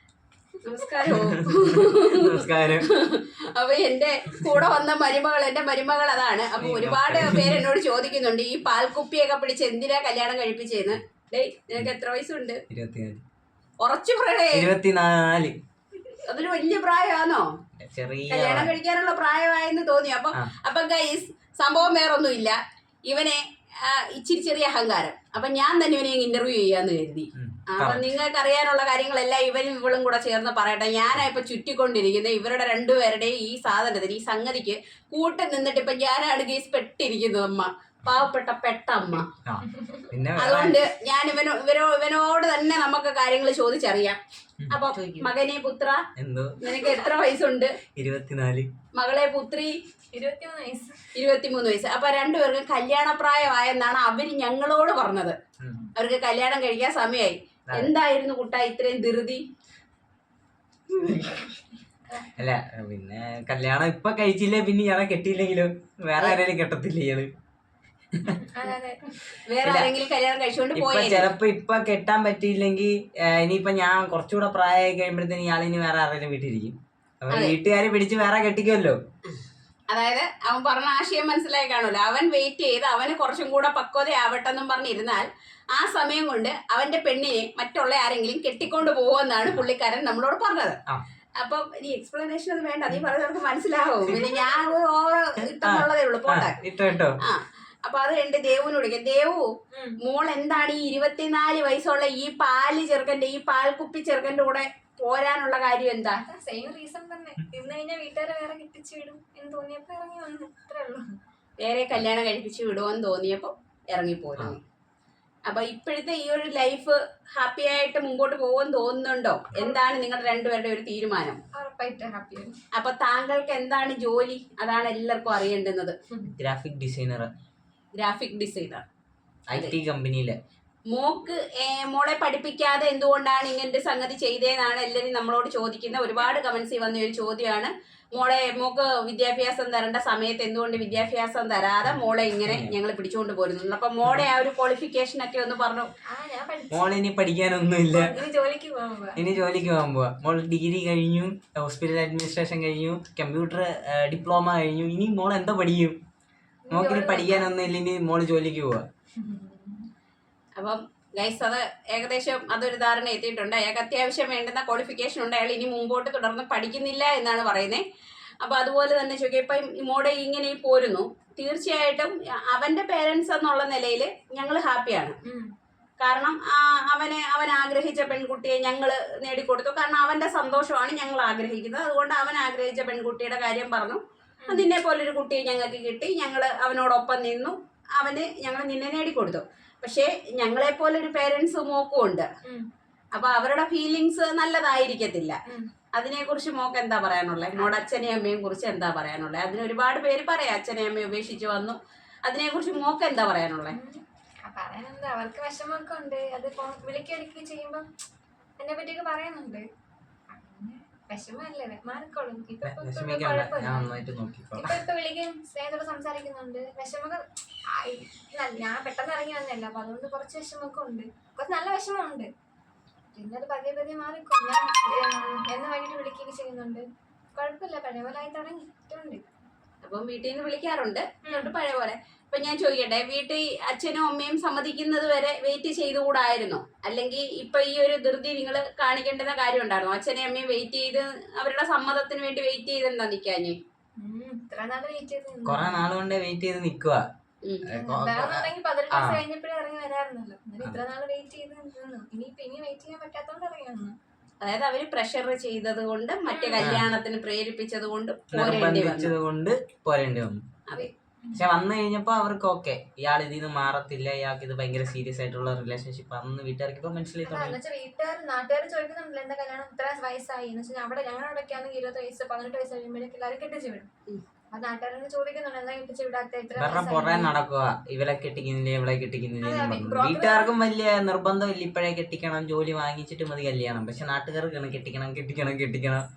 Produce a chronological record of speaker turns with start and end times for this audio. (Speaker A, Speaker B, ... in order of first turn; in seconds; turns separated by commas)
Speaker A: 0.6-12.6, Speaker B: 1.2-2.9, Speaker B: 6.6-7.7, Speaker B: 12.7-13.2, Speaker A: 13.8-14.7, Speaker B: 14.5-15.5, Speaker A: 16.2-17.4, Speaker B: 17.8-18.7, Speaker A: 18.3-39.3, Speaker B: 27.4-28.1, Speaker B: 39.5-40.8, Speaker C: 39.8-40.1, Speaker A: 40.4-44.2, Speaker B: 44.6-45.3, Speaker A: 44.7-46.0, Speaker B: 46.2-46.5, Speaker A: 46.6-47.7, Speaker B: 48.0-48.7, Speaker A: 48.9-49.7, Speaker C: 50.1-51.0, Speaker A: 51.1-55.4, Speaker A: 56.0-59.4, Speaker B: 62.4-67.3, Speaker B: 68.1-68.4, Speaker C: 68.5-69.2, Speaker A: 69.5-71.3, Speaker B: 69.6-69.9, Speaker B: 70.8-79.0, Speaker A: 77.3-77.6, Speaker A: 79.9-90.8, Speaker A: 91.4-96.5, Speaker B: 94.1-94.4, Speaker B: 95.6-97.2, Speaker A: 97.2-99.4, Speaker A: 100.0-106.2, Speaker C: 106.1-111.1, Speaker A: 111.6-114.6, Speaker A: 115.5-121.4, Speaker C: 121.5-122.5, Speaker A: 122.8-126.0, Speaker B: 126.3-127.3, Speaker A: 128.0-128.8, Speaker B: 129.5-130.4, Speaker A: 130.9-145.9, Speaker B: 141.8-142.7, Speaker C: 146.1-147.0, Speaker B: 146.7-148.1, Speaker C: 147.9-149.3, Speaker B: 149.2-156.0, Speaker C: 156.7-157.5, Speaker B: 156.7-158.8, Speaker C: 159.2-159.9, Speaker A: 160.6-167.8, Speaker A: 168.4-175.2, Speaker A: 176.0-192.3, Speaker C: 184.4-184.7, Speaker A: 193.2-195.4, Speaker A: 195.9-203.8, Speaker C: 197.6-197.8, Speaker C: 203.7-207.9, Speaker C: 208.6-209.7, Speaker C: 210.3-214.0, Speaker B: 212.6-214.8, Speaker C: 214.6-222.3, Speaker C: 223.2-226.8, Speaker C: 227.4-229.2, Speaker A: 229.8-243.6, Speaker C: 231.3-231.5, Speaker C: 244.0-245.9, Speaker B: 245.4-247.0, Speaker A: 247.4-247.7, Speaker B: 247.7-249.2, Speaker C: 247.7-253.9, Speaker A: 254.4-259.1, Speaker C: 256.3-256.7, Speaker B: 256.6-256.9, Speaker B: 258.3-260.4, Speaker C: 260.8-261.5, Speaker B: 261.4-267.6, Speaker C: 267.3-273.9, Speaker C: 274.5-277.3, Speaker B: 276.6-286.0, Speaker C: 279.4-280.5